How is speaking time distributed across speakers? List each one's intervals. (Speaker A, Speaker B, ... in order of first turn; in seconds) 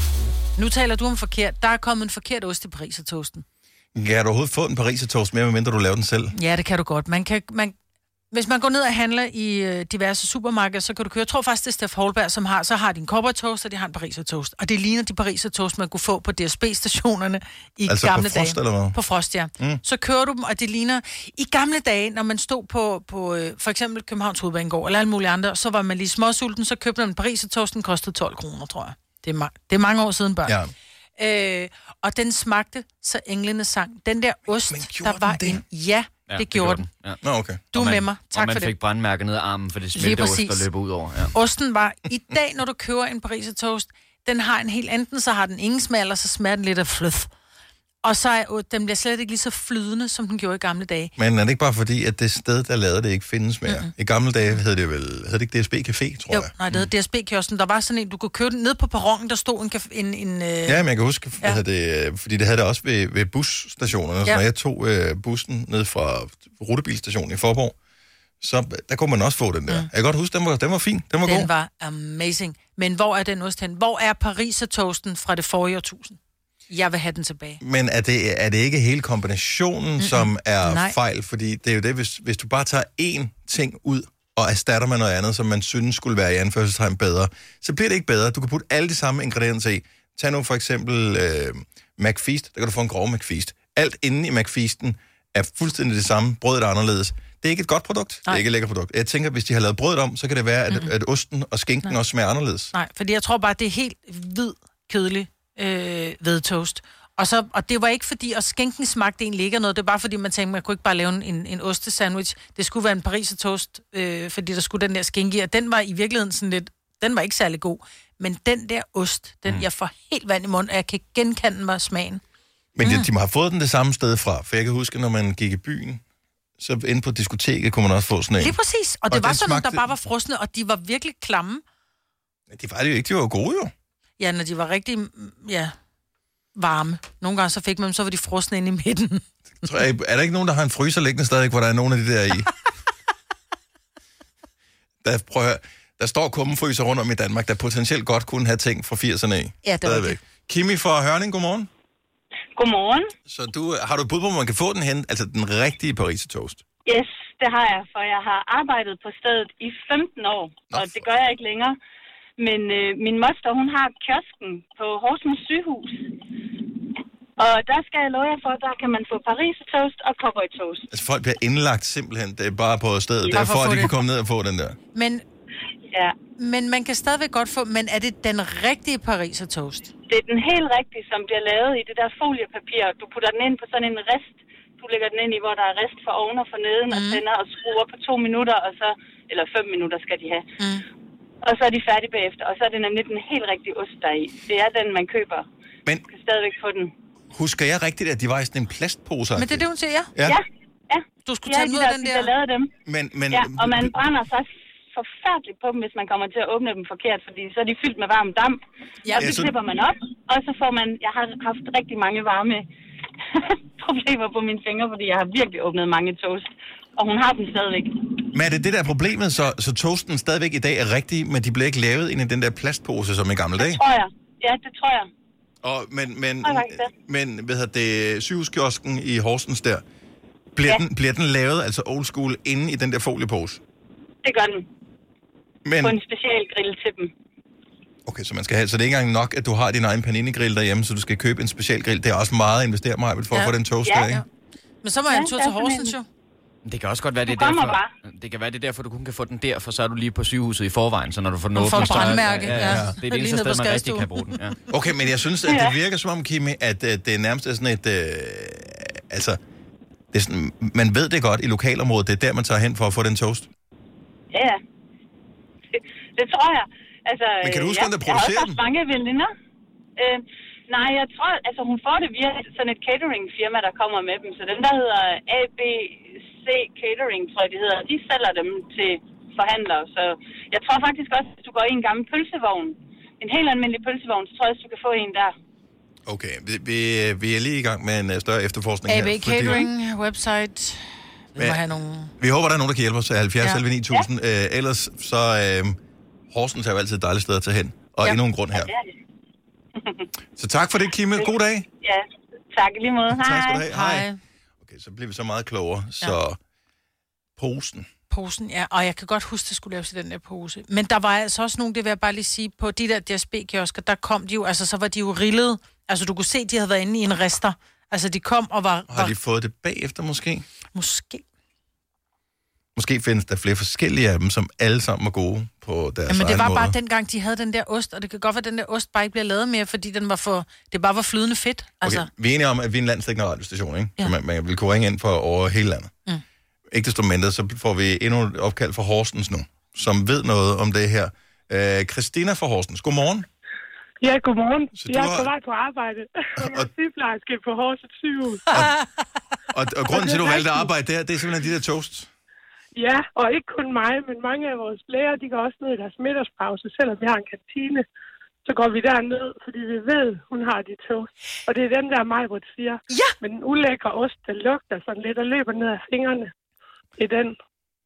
Speaker A: 0.6-3.4, 6.3-7.7, 8.3-30.6, 31.2-36.9, 37.7-38.7, 39.9-40.7, 41.3-47.3, 48.0-51.1, 56.3-60.9, 71.2-76.2, 76.7-77.6, 80.0-80.9, 102.7-122.2, 122.8-123.1, 128.4-131.6, 134.2-135.7, 136.5-139.2, 149.6-150.2, 173.3-173.9, 174.9-175.2, 176.4-179.9, 186.9-187.2, 190.6-190.8, 199.3-200.1, 201.2-202.3, 244.8-246.1, 251.5-254.4, 288.9-292.1, 303.7-304.2, 308.1-319.1, 320.7-321.2, 326.1-332.1
Speaker B: 3.9-6.3, 17.9-19.0, 30.5-30.7, 34.7-35.6, 37.2-37.7, 51.2-56.8, 60.6-67.7, 68.4-71.5, 77.6-102.7, 122.7-126.0, 126.6-128.6, 129.1-129.9, 132.5-133.7, 139.6-142.5, 145.0-151.7, 153.3-156.6, 160.7-161.0, 170.9-174.8, 197.3-200.4, 202.8-203.9, 209.2-209.5, 218.3-223.8, 225.6-229.8, 230.5-233.6, 235.6-235.9, 238.1-244.2, 251.9-252.9, 254.7-259.4, 260.1-263.5, 267.4-268.6, 286.1-289.7, 291.4-291.6, 292.2-295.8, 296.3-298.7, 300.4-301.7, 303.1-304.1, 304.6-306.4, 307.4-307.9, 318.9-320.4, 322.8-326.7, 331.8-335.9, 336.7-343.2, 344.7-345.3, 346.4-346.7, 348.5-348.8, 349.5-352.1
Speaker C: 36.3-37.2, 37.7-41.3, 246.6-254.6
Speaker D: 152.6-153.1, 156.8-161.8, 162.4-166.1, 167.4-170.9, 180.1-190.4, 191.4-195.4, 196.1-196.9, 200.2-202.7, 203.3-212.7, 213.3-218.2, 223.6-225.1, 226.4-226.9, 234.2-234.7, 235.8-237.1, 243.8-244.2, 245.1-245.9, 247.2-247.9, 255.5-255.7, 264.3-264.6, 265.7-269.3, 270.0-285.3, 298.5-298.9, 299.8-300.1, 301.8-303.6
Speaker E: 344.0-348.5, 349.9-350.7, 352.7-357.8, 358.4-366.3, 367.0-367.4